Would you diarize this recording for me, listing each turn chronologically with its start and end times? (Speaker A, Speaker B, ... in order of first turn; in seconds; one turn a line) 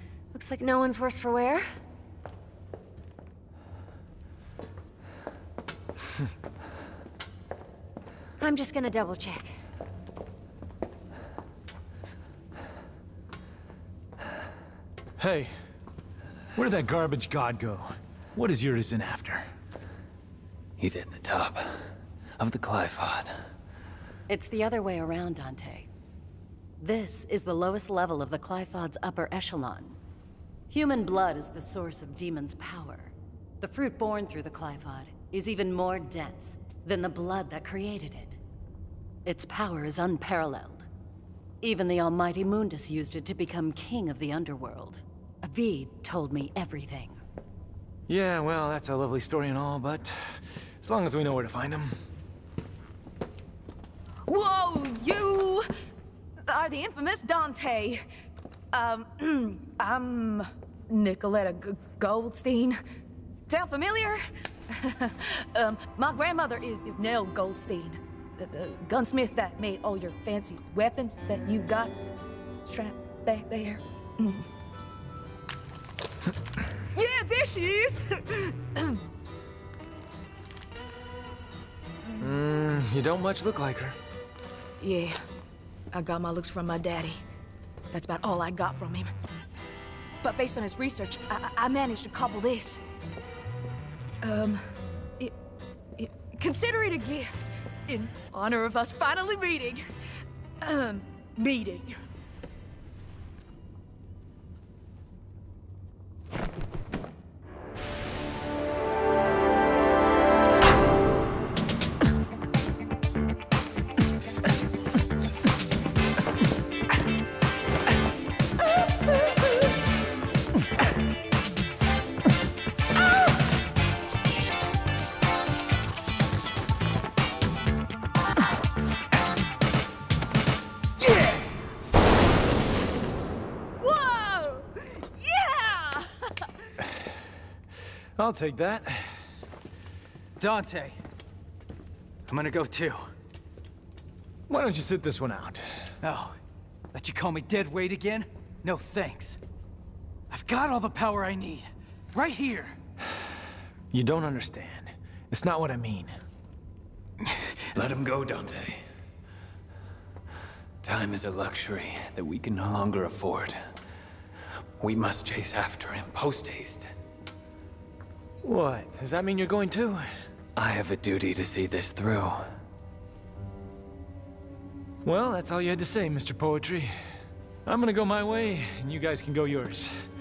Speaker A: 0.3-1.7
Speaker A: 8.4-9.5
Speaker B: 15.2-15.5
Speaker B: 16.5-19.4
Speaker C: 20.8-21.8
Speaker C: 22.4-23.4
Speaker D: 24.3-25.9
Speaker D: 26.8-30.0
Speaker D: 30.7-38.4
Speaker D: 39.2-40.9
Speaker D: 41.6-47.2
Speaker B: 48.1-51.9
Speaker E: 54.3-55.6
Speaker E: 56.5-58.0
Speaker E: 58.7-62.8
Speaker E: 63.5-64.2
Speaker E: 64.7-71.9
Speaker E: 72.7-74.5
Speaker E: 76.9-79.0
Speaker B: 82.2-84.0
Speaker E: 84.8-85.2
Speaker E: 85.9-87.2
Speaker E: 87.9-89.1
Speaker E: 90.2-92.8
Speaker E: 94.2-94.6
Speaker E: 96.0-99.8
Speaker E: 100.6-102.0
Speaker E: 133.8-136.1
Speaker B: 138.2-139.1
Speaker F: 140.4-141.0
Speaker F: 142.3-143.1
Speaker B: 144.5-145.6
Speaker F: 146.0-146.4
Speaker F: 146.9-149.4
Speaker F: 150.3-152.8
Speaker B: 153.9-156.1
Speaker C: 157.7-158.8
Speaker C: 160.8-163.6
Speaker C: 164.8-166.9
Speaker B: 168.4-170.1
Speaker C: 170.6-172.4
Speaker B: 175.0-176.9
Speaker B: 177.7-179.9